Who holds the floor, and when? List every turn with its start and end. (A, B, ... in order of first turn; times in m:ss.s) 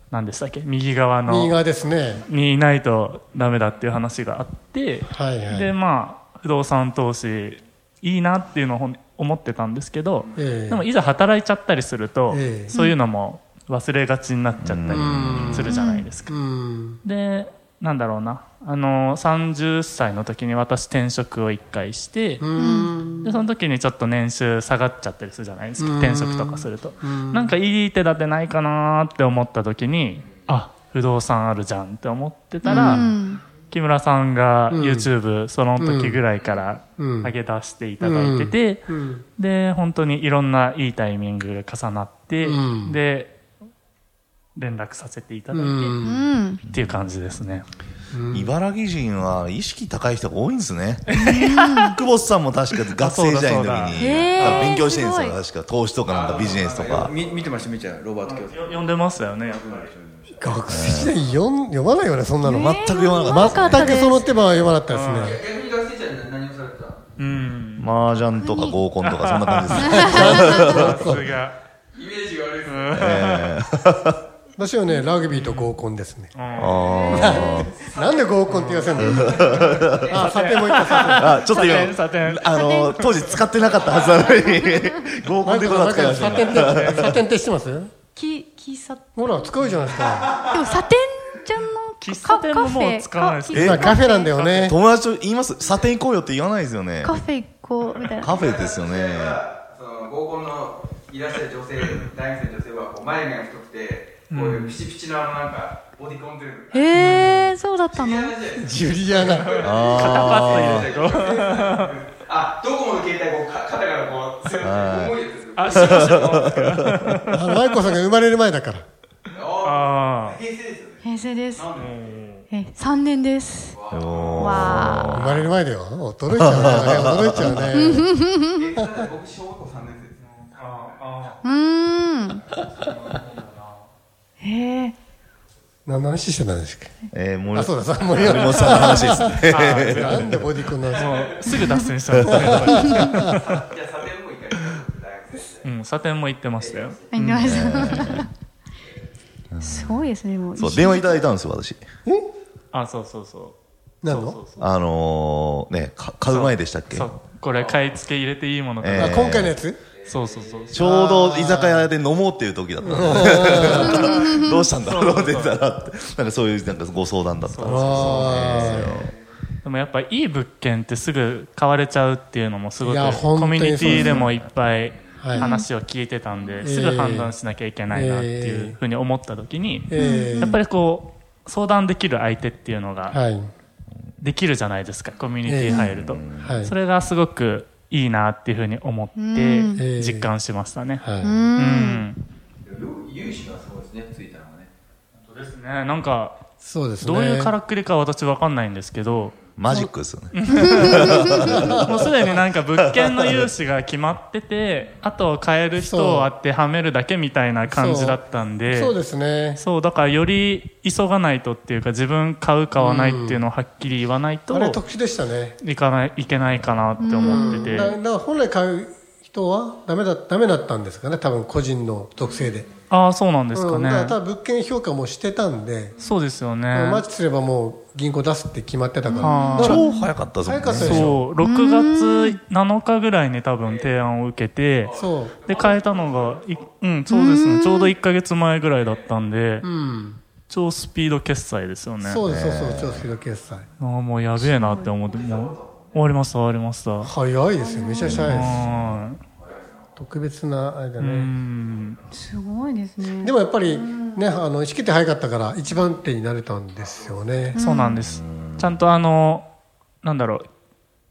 0:00.1-0:01.6 A
0:01.3-0:02.2 B
0:02.2-0:16.4 A
0:05.0-0:05.7 B
0:10.3-0:10.9 B
0:12.3-0:12.7 B
0:14.6-0:15.5 C
0:14.9-0:17.0 B
0:15.5-0:16.1 D
0:17.0-0:22.4 A
0:22.4-0:23.4 B
0:22.6-0:22.9 D
0:23.2-0:33.1 A
0:25.8-0:27.5 B
0:32.6-0:33.1 B
0:32.6-0:33.4 D
0:33.7-0:43.4 A
0:34.7-0:35.1 B
0:35.8-0:36.2 B
0:37.0-0:37.3 B
0:38.0-0:39.2 B
0:42.4-0:43.0 B
0:44.5-0:46.0 A
0:45.5-0:46.2 B
0:46.0-0:46.6 D
0:46.7-0:47.7 A
0:46.7-0:46.9 C
0:48.1-0:48.5 B
0:48.3-0:51.2 C
0:51.1-0:51.9 A
0:51.1-0:52.0 D
0:51.9-0:57.9 C
0:53.0-0:54.8 A
0:53.9-0:55.4 D
0:56.3-0:58.5 E
0:58.2-0:59.9 A
0:59.5-1:00.4 E
1:00.4-1:05.4 B
1:00.7-1:01.2 C
1:02.4-1:04.3 D
1:02.5-1:04.0 C
1:04.9-1:05.4 A
1:05.3-1:07.0 E
1:07.2-1:08.0 A
1:07.8-1:11.1 C
1:08.4-1:08.8 D
1:09.0-1:11.6 A
1:09.7-1:10.6 D
1:10.0-1:11.2 B
1:12.0-1:12.7 E
1:12.6-1:13.6 A
1:12.7-1:14.2 C
1:14.6-1:16.4 B
1:15.3-1:15.7 A
1:16.3-1:17.4 A
1:16.6-1:17.9 C
1:17.1-1:21.5 B
1:18.5-1:23.4 A
1:19.0-1:20.2 C
1:21.0-1:27.2 C
1:22.4-1:22.9 D
1:24.2-1:25.0 D
1:25.4-1:27.9 B
1:26.4-1:27.1 A
1:28.1-1:29.5 D
1:29.2-1:30.4 B
1:29.6-1:30.2 A
1:30.3-1:34.4 D
1:32.0-1:34.7 A
1:33.5-1:33.9 C
1:33.7-1:34.8 B
1:34.6-1:37.2 C
1:37.0-1:38.4 D
1:38.2-1:39.5 C
1:39.4-1:46.8 E
1:44.3-1:44.8 A
1:46.7-1:48.4 D
1:46.9-1:47.5 A
1:47.9-1:48.6 E
1:48.6-1:50.1 B
1:49.4-1:51.9 A
1:49.5-1:51.8 C
1:50.4-1:51.3 E
1:52.2-1:55.6 E
1:54.4-1:57.2 C
1:55.5-1:57.5 A
1:57.3-1:58.8 B
1:59.3-2:01.0 E
1:59.6-2:00.4 A
2:01.0-2:01.7 D
2:01.6-2:01.9 E
2:01.8-2:02.5 A
2:02.5-2:03.8 D
2:03.7-2:04.3 E
2:03.9-2:05.5 C
2:04.4-2:05.1 D
2:05.1-2:08.1 B
2:06.3-2:07.8 C
2:07.7-2:08.6 D
2:08.6-2:10.2 E
2:10.2-2:11.4 A
2:11.4-2:12.4 D
2:12.6-2:13.9 A
2:14.4-2:14.9 D
2:15.8-2:21.2 B
2:17.1-2:20.3 C
2:18.8-2:23.6 A
2:22.2-2:22.8 C
2:22.2-2:23.3 B
2:22.9-2:23.2 D
2:23.3-2:23.6 C
2:23.6-2:25.6 E
2:25.6-2:28.2 A
2:26.6-2:27.1 E
2:27.1-2:28.3 D
2:27.4-2:28.2 C
2:29.5-2:31.8 C
2:29.6-2:31.3 D
2:32.7-2:34.7 A
2:34.0-2:34.4 B
2:34.6-2:37.1 C
2:36.3-2:39.4 A
2:38.8-2:39.6 C
2:38.9-2:39.8 B
2:40.0-2:40.6 E
2:40.0-2:40.8 A
2:40.7-2:49.1 C
2:40.7-2:41.9 B
2:42.8-2:44.1 B
2:43.2-2:45.6 A
2:44.1-2:44.6 D
2:47.5-2:48.6 A
2:47.6-2:49.1 B
2:49.6-3:03.2 A
2:52.8-2:54.3 B
2:53.8-2:54.1 D
2:55.2-2:55.5 B
2:55.3-2:55.7 D
2:56.6-2:57.3 B
2:57.9-2:58.8 B
2:59.9-3:00.6 B
3:00.0-3:00.6 D
3:03.1-3:03.5 B
3:04.2-3:11.0 A
3:05.4-3:06.7 B
3:05.9-3:06.6 C
3:09.2-3:09.8 D
3:09.8-3:10.3 B
3:11.0-3:11.4 B
3:11.2-3:12.0 D
3:11.6-3:12.2 A
3:12.7-3:14.7 E
3:15.2-3:16.4 A
3:16.6-3:17.5 B
3:17.0-3:19.3 A
3:19.6-3:21.8 C
3:20.3-3:29.0 A
3:20.6-3:21.2 D
3:21.4-3:22.2 B
3:22.8-3:23.4 C
3:25.8-3:26.3 B
3:27.6-3:29.6 B
3:29.6-3:34.8 A
3:32.8-3:33.4 B
3:34.5-3:35.6 B
3:35.6-3:38.0 A
3:37.0-3:37.8 D
3:37.2-3:42.7 B
3:42.9-3:44.2 A
3:43.5-3:45.9 B
3:46.0-3:47.0 A
3:46.7-3:49.9 B
3:49.1-3:50.0 D
3:49.2-3:49.9 A
3:49.6-3:51.1 C
3:50.4-3:51.2 B
3:50.7-3:59.6 A
3:51.4-3:52.4 D
3:55.0-3:55.4 B
3:57.1-3:57.9 D
3:59.6-4:00.2 B
4:00.5-4:02.2 A
4:02.0-4:03.7 B
4:02.2-4:03.1 C
4:03.8-4:07.1 A
4:04.4-4:05.0 D
4:07.0-4:08.7 B
4:07.5-4:08.5 D
4:08.0-4:09.2 A
4:10.0-4:11.3 B
4:11.0-4:12.0 A
4:12.1-4:14.2 D
4:13.2-4:17.6 B
4:17.5-4:18.0 D
4:17.6-4:19.5 A
4:18.0-4:18.8 C
4:20.0-4:20.5 A